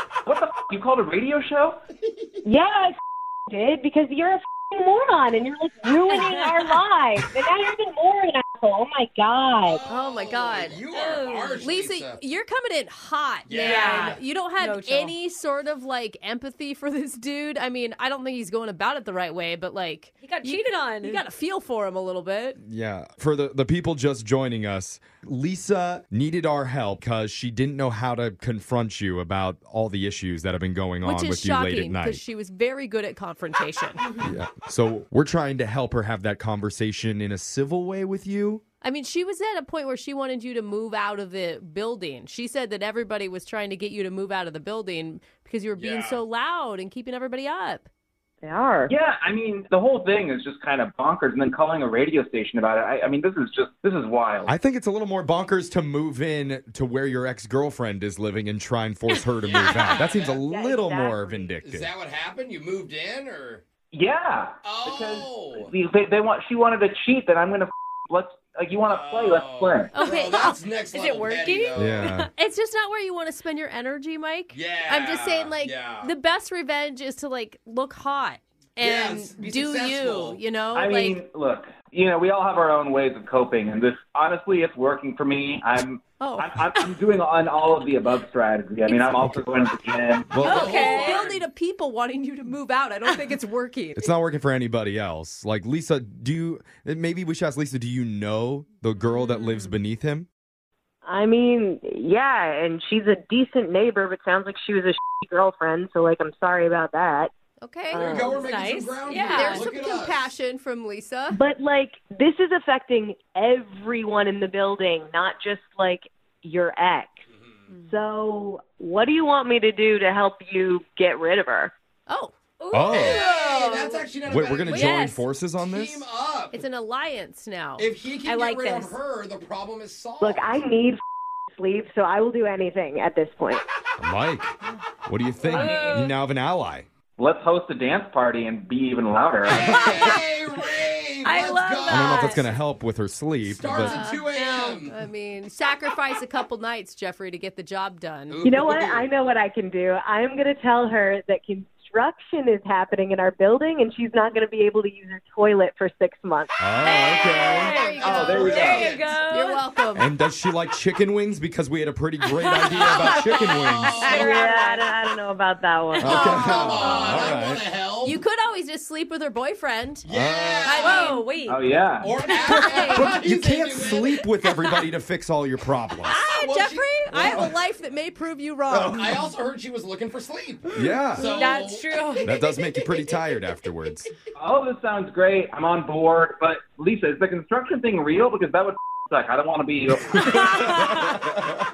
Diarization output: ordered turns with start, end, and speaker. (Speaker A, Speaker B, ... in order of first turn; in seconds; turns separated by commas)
Speaker A: 0.2-1.8, Speaker B: 2.0-2.3, Speaker C: 2.4-9.8, Speaker D: 6.1-6.7, Speaker B: 9.6-12.2, Speaker E: 9.9-10.8, Speaker D: 10.8-11.7, Speaker E: 11.6-22.6, Speaker B: 13.4-14.2, Speaker D: 13.6-15.2, Speaker D: 20.2-21.2, Speaker F: 22.6-32.2, Speaker E: 31.0-34.1, Speaker F: 34.2-38.6, Speaker E: 38.8-47.9, Speaker B: 45.7-46.2, Speaker C: 48.4-48.9, Speaker A: 48.9-54.5, Speaker F: 54.5-61.9, Speaker B: 59.4-60.5, Speaker D: 59.8-60.1, Speaker C: 60.2-61.5, Speaker B: 61.6-63.6, Speaker A: 63.9-69.9, Speaker B: 64.6-65.7, Speaker B: 68.8-72.0, Speaker D: 69.9-72.3, Speaker E: 69.9-70.4, Speaker F: 71.7-72.3, Speaker E: 72.2-81.2, Speaker B: 74.5-76.1, Speaker B: 78.8-80.4, Speaker A: 80.7-90.3, Speaker E: 86.2-86.9, Speaker E: 88.9-89.4, Speaker F: 90.3-90.7, Speaker D: 90.4-91.4, Speaker E: 90.4-94.0, Speaker B: 90.5-91.3, Speaker F: 94.0-100.3, Speaker C: 101.0-107.3, Speaker E: 107.6-108.1, Speaker B: 107.9-110.3, Speaker C: 107.9-108.5, Speaker D: 108.4-109.7, Speaker E: 109.1-111.4, Speaker C: 111.3-117.2, Speaker B: 117.3-117.7, Speaker D: 117.7-118.0, Speaker C: 117.9-121.7, Speaker E: 122.1-122.3, Speaker D: 122.6-124.1, Speaker F: 122.7-123.2, Speaker B: 122.9-124.9, Speaker F: 124.2-126.0, Speaker E: 124.7-125.0, Speaker D: 124.7-125.3, Speaker B: 125.6-126.6, Speaker E: 126.5-127.9, Speaker B: 127.8-130.7, Speaker D: 128.2-129.0, Speaker C: 130.2-131.0, Speaker C: 131.5-133.6, Speaker F: 134.0-136.9, Speaker D: 135.4-136.2, Speaker A: 137.2-140.1, Speaker B: 139.4-142.5, Speaker D: 139.6-140.3, Speaker D: 141.2-142.5, Speaker F: 141.9-144.1, Speaker B: 143.4-145.0, Speaker E: 143.8-148.4, Speaker B: 148.3-149.1, Speaker C: 148.4-157.3, Speaker F: 156.6-157.7, Speaker D: 156.8-159.6, Speaker E: 157.3-160.1, Speaker B: 157.9-159.3, Speaker A: 158.1-158.9, Speaker F: 159.9-164.0, Speaker D: 162.3-164.8, Speaker B: 162.6-164.3, Speaker C: 164.0-166.9, Speaker F: 166.0-167.6, Speaker D: 166.0-167.1, Speaker B: 166.0-168.2, Speaker E: 166.5-167.3, Speaker E: 168.0-170.1, Speaker B: 170.0-171.3, Speaker F: 170.1-170.8, Speaker E: 170.6-171.3, Speaker D: 170.8-173.1, Speaker A: 171.4-172.2, Speaker B: 171.9-174.2, Speaker E: 172.4-173.2, Speaker F: 172.9-176.2, Speaker B: 176.1-177.6, Speaker E: 176.2-179.3, Speaker D: 176.6-177.1, Speaker F: 177.1-177.4, Speaker F: 178.7-179.0, Speaker B: 178.8-182.3, Speaker F: 180.7-181.4, Speaker D: 181.1-182.3, Speaker F: 182.2-184.1, Speaker A: 184.3-190.6, Speaker D: 190.2-191.0